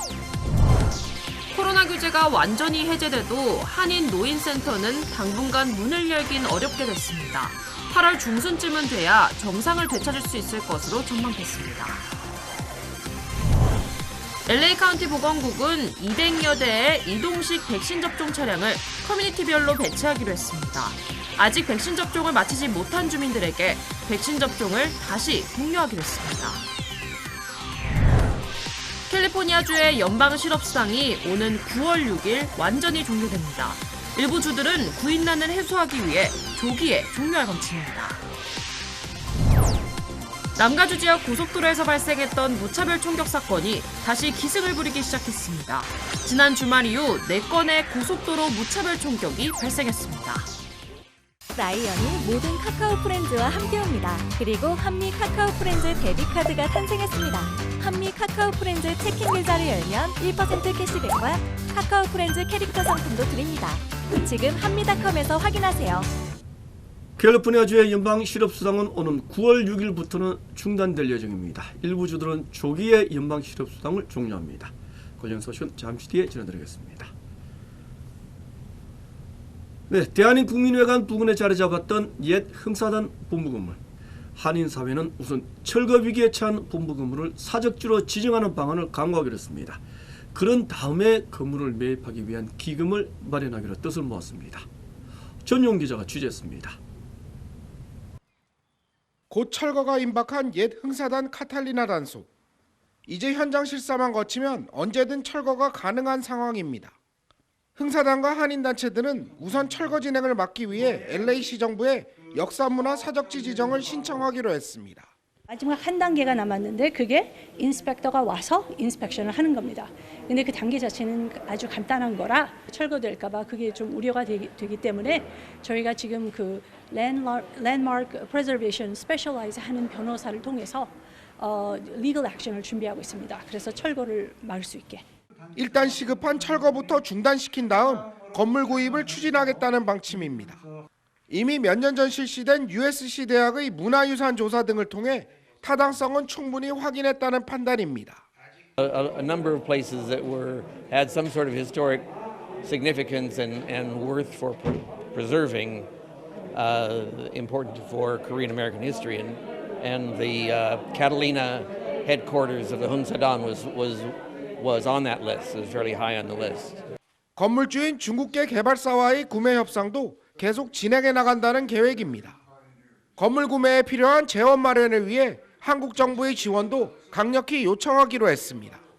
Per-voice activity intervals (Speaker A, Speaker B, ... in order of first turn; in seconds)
Speaker A: 1.5-12.1, 14.5-26.7, 29.1-38.2, 40.5-50.5
Speaker B: 51.5-66.1
Speaker C: 67.2-77.1, 79.9-83.8, 84.3-89.8, 90.3-94.7, 95.4-96.8
Speaker D: 99.3-102.3, 103.1-107.0, 107.8-115.1, 135.6-140.6, 141.3-148.2, 167.3-172.4, 173.2-178.8
Speaker E: 115.5-135.0
Speaker F: 148.8-152.1, 152.6-155.9, 156.5-166.8